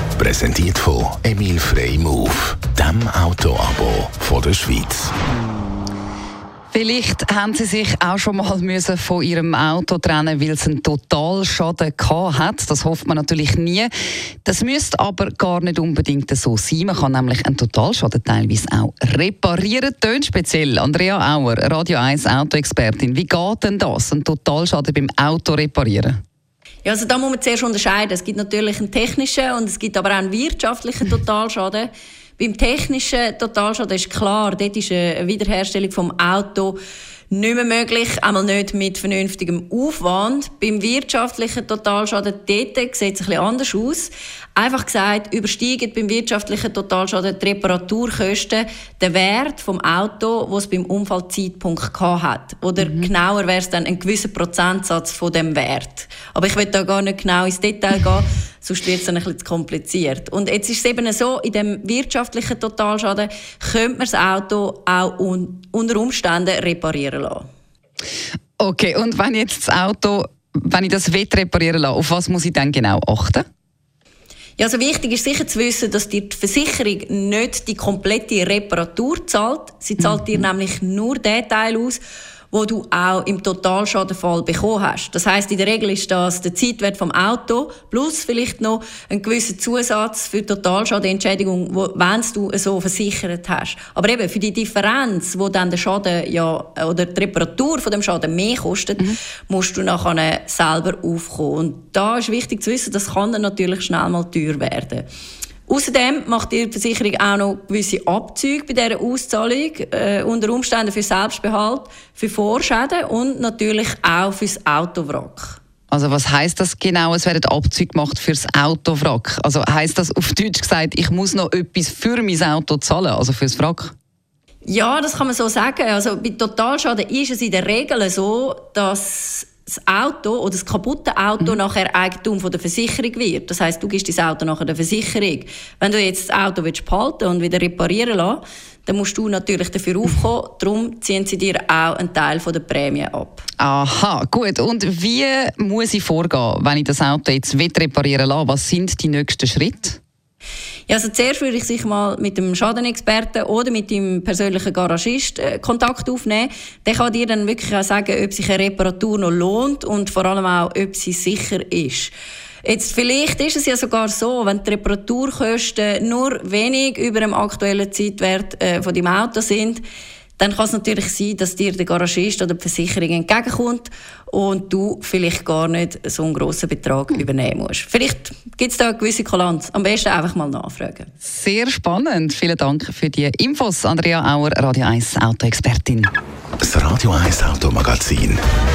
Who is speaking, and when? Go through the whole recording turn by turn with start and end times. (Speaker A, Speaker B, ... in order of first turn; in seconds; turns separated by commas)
Speaker A: 0.2-5.1, Speaker B: 6.7-13.9, Speaker B: 14.4-26.2, Speaker C: 26.8-36.8, Speaker C: 37.3-67.5, Speaker B: 52.8-53.1, Speaker B: 68.6-73.4, Speaker C: 74.6-82.0, Speaker B: 80.0-80.2, Speaker C: 82.5-105.1, Speaker C: 105.7-115.6, Speaker B: 115.9-123.9, Speaker C: 124.7-143.5, Speaker B: 143.6-150.0, Speaker C: 150.9-162.1, Speaker C: 162.6-169.8, Speaker C: 170.4-181.1, Speaker B: 181.2-186.1, Speaker A: 186.6-188.4